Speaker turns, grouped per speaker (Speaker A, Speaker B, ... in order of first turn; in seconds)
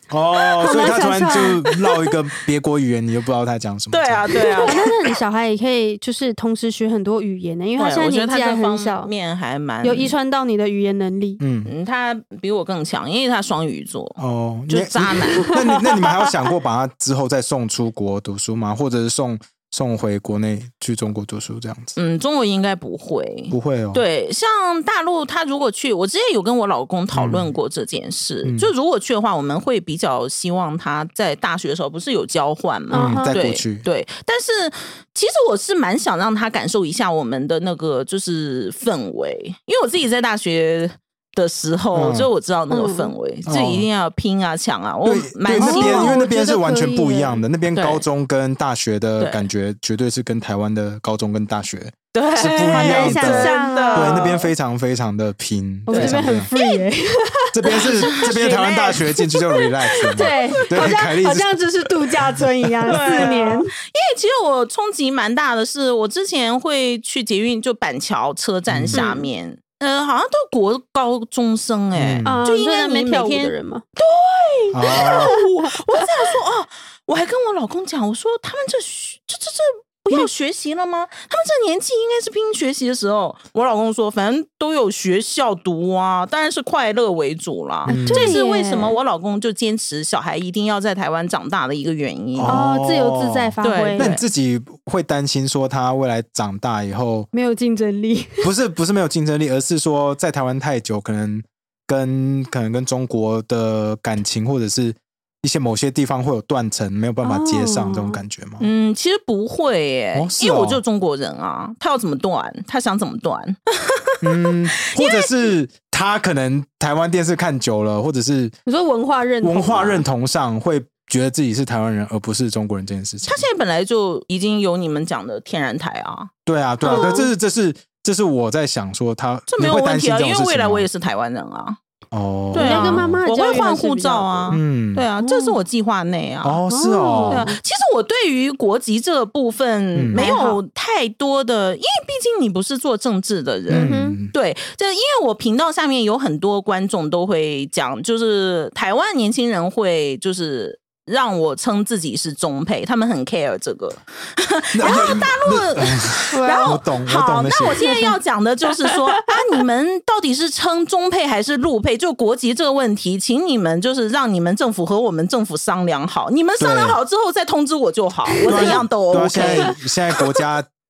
Speaker A: 0.1-4.7, 11.4-11.7, 14.2-22.0, 23.5-24.0, 27.1-27.5, 28.4-28.7, 32.9-33.9, 42.0-42.3, 43.5-43.9, 45.0-56.5, 57.5-61.6, 62.4-63.2, 68.7-69.0, 72.0-72.4, 74.7-75.4, 87.9-88.3, 92.4-97.3, 98.4-108.7, 110.1-110.8, 114.2-118.5, 119.4-123.5, 126.5-130.9, 132.1-133.2, 134.5-135.1, 136.4-137.5, 139.9-140.2, 143.7-144.3, 154.7-158.1, 166.6-167.0, 168.5-170.7
Speaker B: 0.6-1.6, 4.6-9.1, 9.8-11.4, 32.9-33.4, 42.7-43.1, 45.5-47.4, 52.4-54.4, 55.9-59.0, 59.5-63.7, 68.9-69.3, 72.2-73.8, 74.9-76.1, 87.9-89.0, 92.5-94.1, 97.3-98.5, 107.2-108.2, 118.7-120.0, 126.8-127.3, 132.5-134.6, 135.2-135.6, 136.7-137.6, 140.1-140.6, 143.8-144.2, 156.3-156.8, 158.9-159.3, 168.3-168.8, 169.4-169.7
Speaker C: 3.9-5.1, 7.8-10.1, 11.7-15.9, 22.0-46.2, 47.8-48.0, 49.2-49.5, 52.1-54.5, 55.9-56.8, 57.7-59.0, 60.1-60.5, 62.9-92.6, 93.6-94.2, 108.6-115.3, 123.2-126.3, 126.8-127.3, 129.5-131.8, 132.5-136.6, 137.3-169.8